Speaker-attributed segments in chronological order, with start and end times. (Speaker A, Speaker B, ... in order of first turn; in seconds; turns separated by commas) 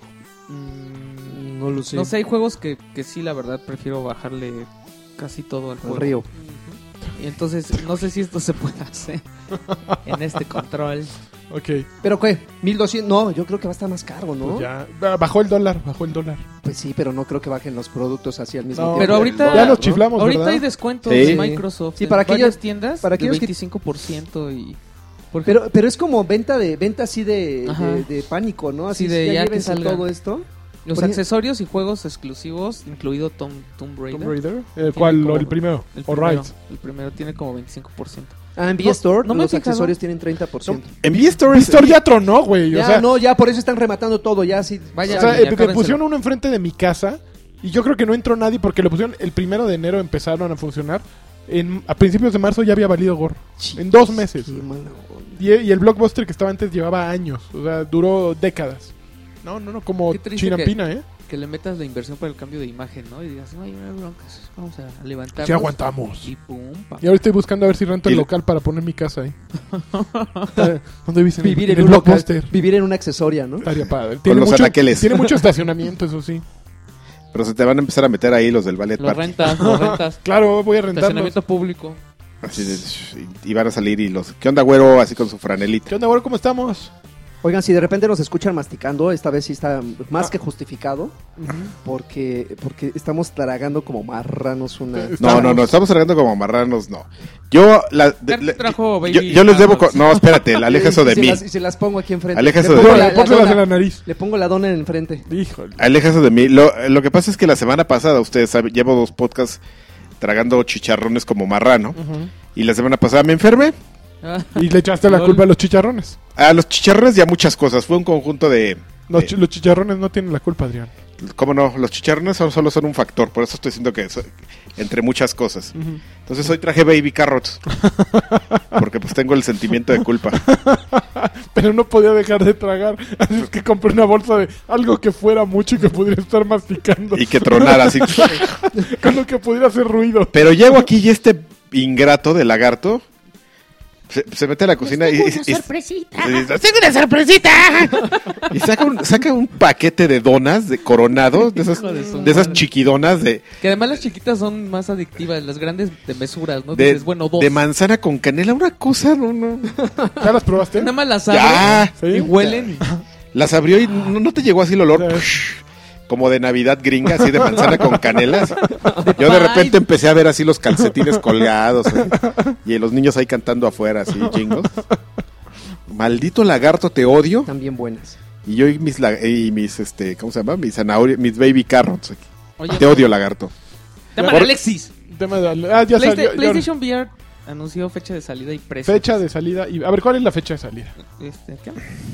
Speaker A: 0.5-1.4, Speaker B: 1.3-2.1, Speaker A: 1.9-6.1, Speaker B: 5.8-6.3, Speaker C: 6.4-6.8, Speaker A: 7.2-9.2, Speaker A: 9.9-11.1, Speaker C: 11.5-11.9, Speaker B: 12.0-14.7, Speaker C: 14.4-16.4, Speaker B: 16.6-20.1, Speaker C: 18.7-20.6, Speaker A: 19.0-24.8, Speaker D: 21.1-21.4, Speaker B: 21.1-23.5, Speaker B: 25.5-31.2, Speaker A: 27.7-28.1, Speaker A: 28.9-30.1, Speaker A: 30.9-40.0, Speaker C: 34.1-36.5, Speaker B: 38.6-40.9, Speaker D: 41.0-42.0, Speaker C: 41.5-43.1, Speaker B: 42.7-45.5, Speaker A: 44.9-46.0, Speaker C: 45.1-54.6, Speaker B: 53.6-55.4, Speaker C: 55.4-58.9, Speaker C: 59.4-61.0, Speaker A: 60.1-67.1, Speaker C: 65.4-66.3, Speaker C: 67.0-69.3, Speaker A: 69.7-70.7, Speaker C: 70.5-72.5, Speaker B: 71.4-73.7, Speaker C: 73.6-76.4, Speaker D: 74.2-75.3, Speaker D: 77.3-79.5, Speaker A: 79.0-80.2, Speaker C: 79.6-81.4, Speaker A: 80.9-82.0, Speaker D: 82.4-85.9, Speaker C: 85.9-86.9, Speaker B: 87.4-91.2, Speaker C: 91.4-91.7, Speaker B: 91.8-95.6, Speaker C: 95.0-95.7, Speaker D: 95.2-101.4, Speaker A: 98.3-100.4, Speaker B: 100.6-105.3, Speaker D: 102.3-103.2, Speaker C: 102.6-104.0, Speaker C: 105.3-105.8, Speaker D: 105.8-109.6, Speaker D: 110.2-112.0, Speaker C: 112.0-112.3, Speaker D: 112.5-113.8, Speaker A: 114.2-115.5, Speaker C: 114.6-116.2, Speaker D: 116.4-119.3, Speaker C: 119.1-120.9, Speaker D: 121.2-125.7, Speaker C: 125.8-126.0, Speaker D: 126.2-127.6, Speaker C: 127.8-128.6, Speaker D: 128.8-130.4, Speaker C: 130.3-140.5, Speaker D: 137.1-138.5, Speaker D: 140.3-143.0, Speaker D: 144.1-145.7, Speaker A: 144.8-146.5, Speaker D: 146.2-153.4, Speaker A: 148.0-148.5, Speaker A: 151.5-152.7, Speaker A: 153.6-157.6, Speaker D: 156.7-159.8, Speaker C: 160.2-160.9, Speaker A: 160.7-162.9, Speaker D: 161.3-162.8, Speaker C: 162.0-163.0, Speaker D: 163.3-174.7, Speaker C: 164.9-165.3, Speaker C: 167.2-169.0, Speaker A: 168.8-169.8, Speaker C: 172.0-172.3, Speaker C: 174.2-174.5, Speaker D: 175.9-177.5, Speaker B: 177.5-178.2, Speaker D: 178.4-183.5, Speaker A: 182.6-183.1, Speaker A: 184.1-184.9, Speaker C: 184.2-184.5, Speaker D: 184.2-184.6, Speaker C: 185.1-186.7, Speaker A: 185.9-189.2, Speaker C: 188.9-190.9, Speaker A: 191.0-191.8